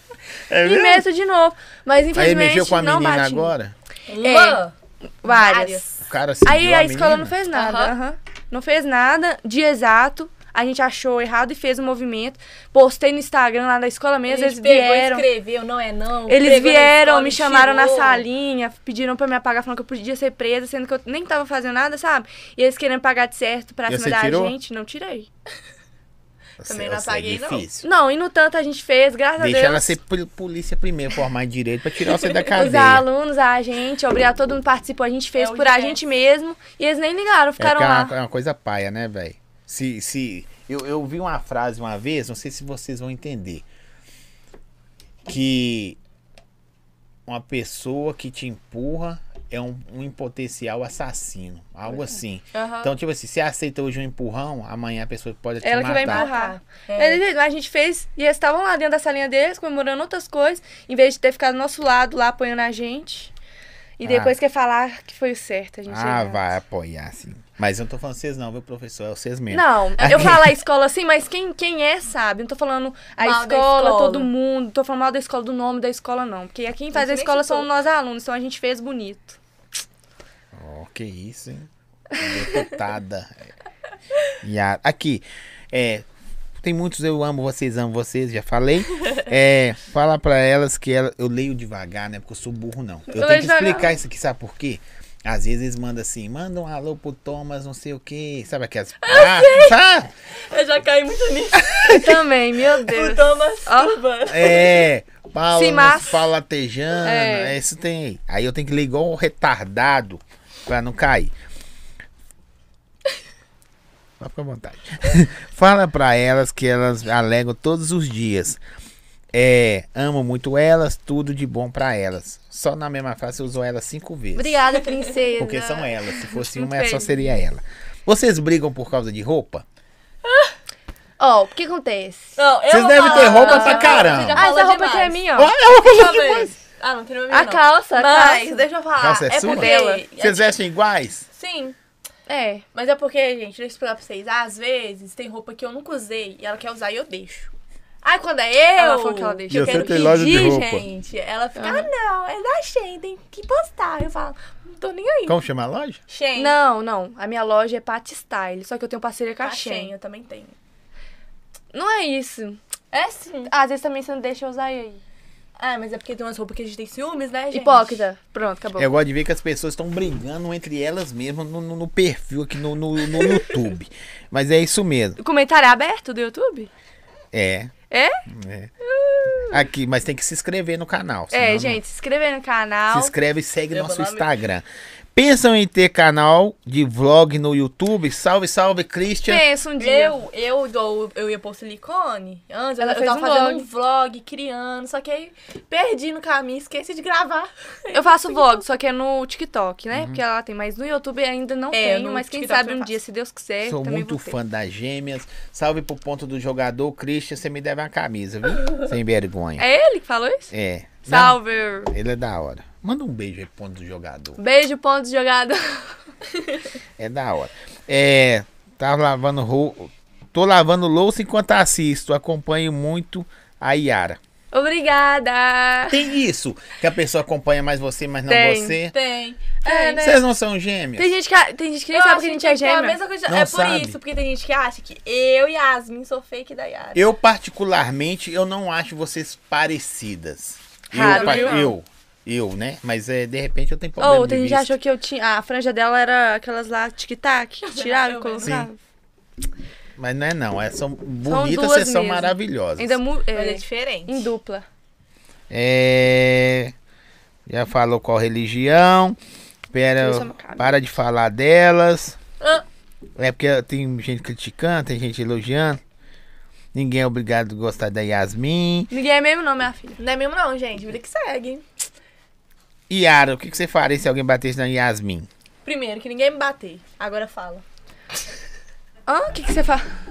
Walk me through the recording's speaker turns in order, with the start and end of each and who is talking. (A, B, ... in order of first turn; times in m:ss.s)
0:00.5-0:01.1 A
0:00.6-0:03.5 B
0:02.1-0:03.7 A
0:04.1-0:04.7 C
0:04.2-0:04.6 B
0:05.2-0:05.9 B
0:05.2-0:06.0 C
0:06.0-0:07.3 A
0:06.4-0:15.3 B
0:07.5-0:08.0 C
0:14.3-0:18.2 C
0:16.3-0:25.3 B
0:23.9-0:24.6 A
0:26.6-0:27.8 A
0:26.6-0:27.7 C
0:27.8-0:30.0 B
0:29.4-0:33.0 A
0:32.5-0:38.1 B
0:35.4-0:36.0 C
0:37.6-0:43.6 A
0:45.3-0:46.0 A
0:47.3-0:56.3 A
0:52.5-0:52.9 C
0:55.6-1:03.3 B
0:56.0-0:57.2 C
1:04.0-1:06.5 B
1:04.0-1:04.4 A
1:05.9-1:10.6 A
1:09.5-1:19.4 B
1:13.2-1:14.3 C
1:16.9-1:17.7 C
1:20.5-1:23.4 A
1:24.4-1:26.1 A
1:26.6-1:40.1 A
1:33.1-1:33.9 B
1:39.0-1:39.8 C
1:40.5-1:42.1 C
1:41.7-1:42.0 A
1:41.8-1:44.0 B
1:42.8-1:44.9 C
1:44.3-1:51.3 A
1:45.5-1:46.3 B
1:47.0-1:47.6 B
1:54.2-1:58.6 A
1:59.3-2:04.6 A
2:04.4-2:07.2 B
2:04.8-2:05.1 C
2:05.4-2:09.6 A
2:10.2-2:10.5 C
2:11.2-2:12.4 B
2:12.4-2:20.5 C
2:12.7-2:14.5 A
2:13.0-2:15.6 B
2:15.4-2:16.5 A
2:16.2-2:16.5 B
2:17.3-2:18.6 B
2:19.0-2:21.3 A
2:19.4-2:20.0 B
2:21.3-2:21.8 C
2:22.3-2:22.6 B
2:22.7-2:27.5 C
2:28.0-2:35.4 C
2:28.8-2:30.2 B
2:29.5-2:30.9 A
2:31.6-2:31.9 B
2:35.3-2:36.0 A
2:36.1-2:36.6 C
2:36.4-2:39.9 B
2:39.4-2:40.6 C
2:41.7-2:42.6 B
2:42.9-2:43.5 C
2:43.5-2:45.0 B
2:45.6-2:48.0 C
2:47.5-2:49.0 B
2:48.8-2:55.2 A
2:55.2-2:56.7 B
2:57.3-2:57.7 A
2:57.9-2:58.2 B
2:58.3-2:58.7 A
2:59.3-2:59.5 B
2:59.4-3:01.8 A
3:01.3-3:03.1 B
3:02.9-3:09.4 A
3:03.7-3:04.3 C
3:09.3-3:10.2 B
3:09.8-3:18.6 C
3:12.8-3:13.6 B
3:17.9-3:24.4 B
3:19.9-3:20.2 A
3:21.7-3:23.0 C
3:23.6-3:29.6 A
3:29.6-3:30.5 B
3:30.5-3:34.4 A
3:31.1-3:31.9 B
3:34.4-3:35.9 B
3:37.0-3:44.2 A
3:44.5-3:46.0 B
3:45.9-3:48.9 A
3:48.3-3:48.8 B
3:48.9-3:50.2 C
3:49.6-3:50.2 B
3:50.0-3:51.2 A
3:51.0-3:53.0 B
3:51.9-3:57.0 C
3:53.3-3:54.0 A
3:57.0-4:04.8 A
4:00.9-4:01.7 B
4:01.0-4:01.7 C
4:04.0-4:08.8 B
4:07.7-4:08.6 C
4:08.4-4:08.7 A
4:10.0-4:13.0 A
4:11.2-4:14.7 B
4:13.4-4:14.3 C
4:15.5-4:16.7 A
4:17.5-4:19.2 A
4:19.7-4:22.2 A
4:20.0-4:20.7 B
4:23.2-4:25.8 A
4:26.7-4:28.9 A
4:28.9-4:30.0 B
4:30.0-4:31.6 C
4:32.9-4:35.3 A
4:35.6-4:37.6 C
4:39.1-4:39.9 B